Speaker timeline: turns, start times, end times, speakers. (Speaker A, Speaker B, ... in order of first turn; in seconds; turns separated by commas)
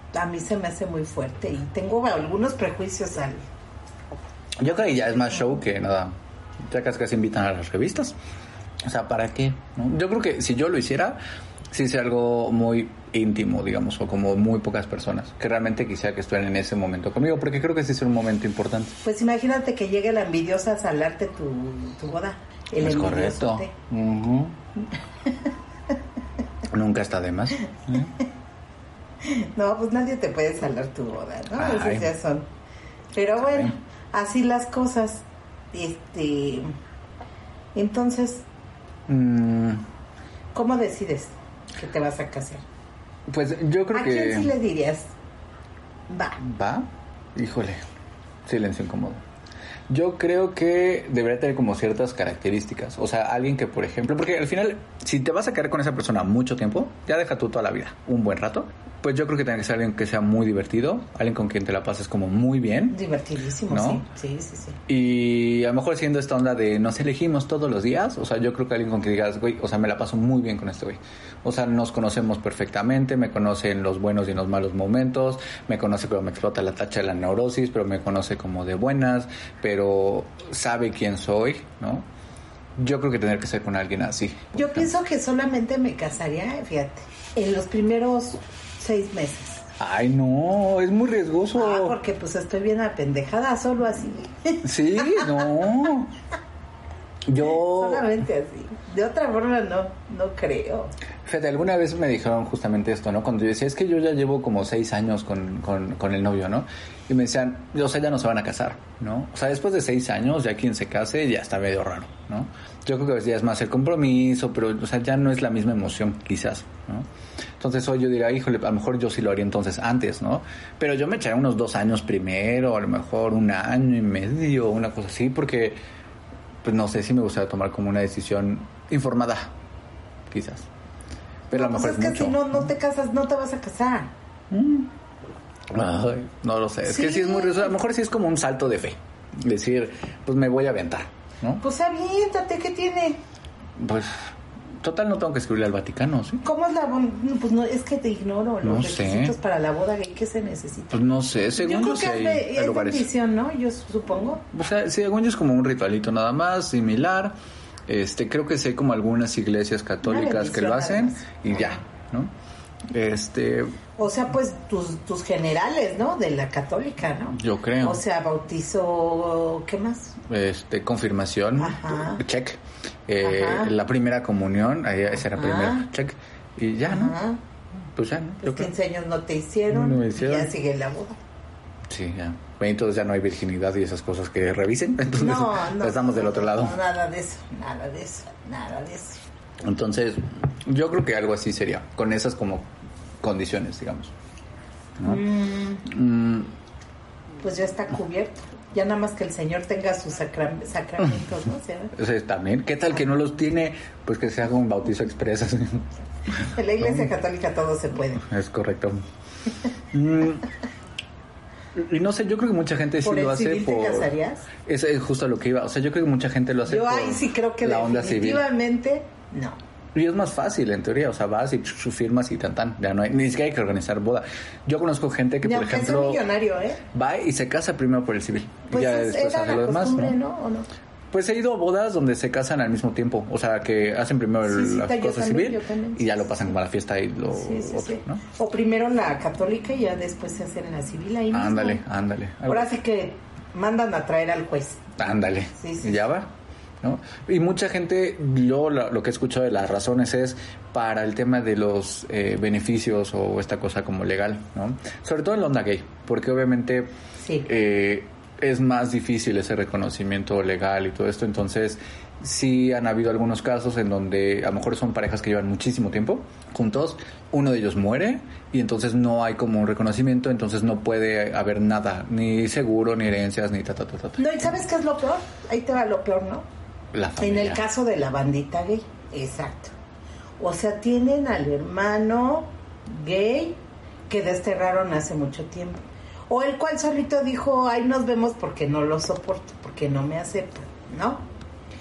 Speaker A: 0.1-3.4, Speaker B: 4.6-6.1, Speaker B: 6.7-8.2, Speaker B: 8.8-11.2, Speaker B: 11.7-19.0, Speaker A: 19.0-23.7, Speaker B: 22.8-24.5, Speaker B: 26.7-28.1, Speaker A: 29.2-32.5, Speaker B: 31.6-32.1, Speaker A: 33.1-36.7, Speaker B: 33.4-33.7, Speaker A: 37.7-38.4, Speaker B: 39.1-39.8, Speaker A: 40.5-42.6, Speaker B: 43.3-44.5, Speaker A: 43.9-45.1, Speaker A: 46.1-46.4, Speaker B: 46.4-47.8, Speaker B: 48.5-49.2, Speaker B: 49.9-63.0, Speaker A: 62.9-64.8, Speaker B: 63.7-64.0, Speaker B: 64.9-82.0, Speaker B: 82.8-84.9, Speaker A: 84.5-89.6, Speaker B: 89.8-92.0, Speaker A: 91.5-95.5, Speaker B: 94.6-96.1, Speaker B: 97.3-98.2, Speaker A: 97.4-100.9, Speaker B: 101.2-117.0, Speaker B: 117.6-125.8, Speaker B: 126.6-129.5, Speaker B: 130.3-130.7, Speaker B: 131.5-132.7, Speaker A: 131.5-134.1, Speaker B: 134.5-134.9, Speaker B: 135.7-141.6, Speaker A: 136.8-137.7, Speaker A: 141.6-143.2, Speaker B: 143.8-144.2, Speaker B: 144.8-146.4, Speaker A: 146.4-151.0, Speaker B: 148.6-149.3, Speaker B: 150.9-153.1, Speaker A: 151.5-154.4, Speaker B: 154.5-157.3, Speaker B: 157.9-162.3, Speaker A: 160.0-161.8, Speaker B: 162.9-163.7, Speaker A: 164.0-170.2, Speaker B: 167.3-168.0, Speaker B: 170.3-177.2, Speaker A: 171.6-172.2, Speaker A: 173.2-173.7, Speaker A: 175.3-175.8, Speaker A: 176.8-177.4, Speaker B: 177.9-178.7, Speaker A: 178.4-181.2, Speaker B: 179.7-180.5, Speaker B: 181.9-186.8, Speaker A: 185.2-189.2, Speaker B: 189.6-192.7, Speaker B: 193.2-194.1, Speaker B: 195.0-195.2, Speaker A: 195.0-195.8, Speaker B: 195.8-196.5, Speaker A: 197.4-201.9, Speaker B: 201.9-205.9, Speaker A: 206.3-208.2, Speaker B: 206.8-207.1, Speaker B: 208.2-209.0, Speaker B: 209.9-210.5, Speaker B: 211.7-214.1, Speaker A: 213.0-214.5, Speaker B: 214.6-218.5, Speaker A: 216.7-219.6, Speaker B: 219.9-226.2, Speaker A: 225.4-226.8, Speaker B: 226.9-230.2, Speaker A: 228.7-230.7, Speaker B: 231.1-238.2, Speaker A: 234.4-236.5, Speaker A: 237.3-241.8, Speaker B: 241.3-242.7, Speaker A: 242.5-244.8, Speaker B: 245.0-246.3, Speaker A: 245.6-246.0, Speaker B: 246.8-256.9, Speaker A: 257.2-257.5, Speaker B: 257.4-274.5, Speaker A: 274.2-276.4, Speaker B: 276.9-277.6, Speaker A: 277.2-279.7, Speaker A: 280.4-291.2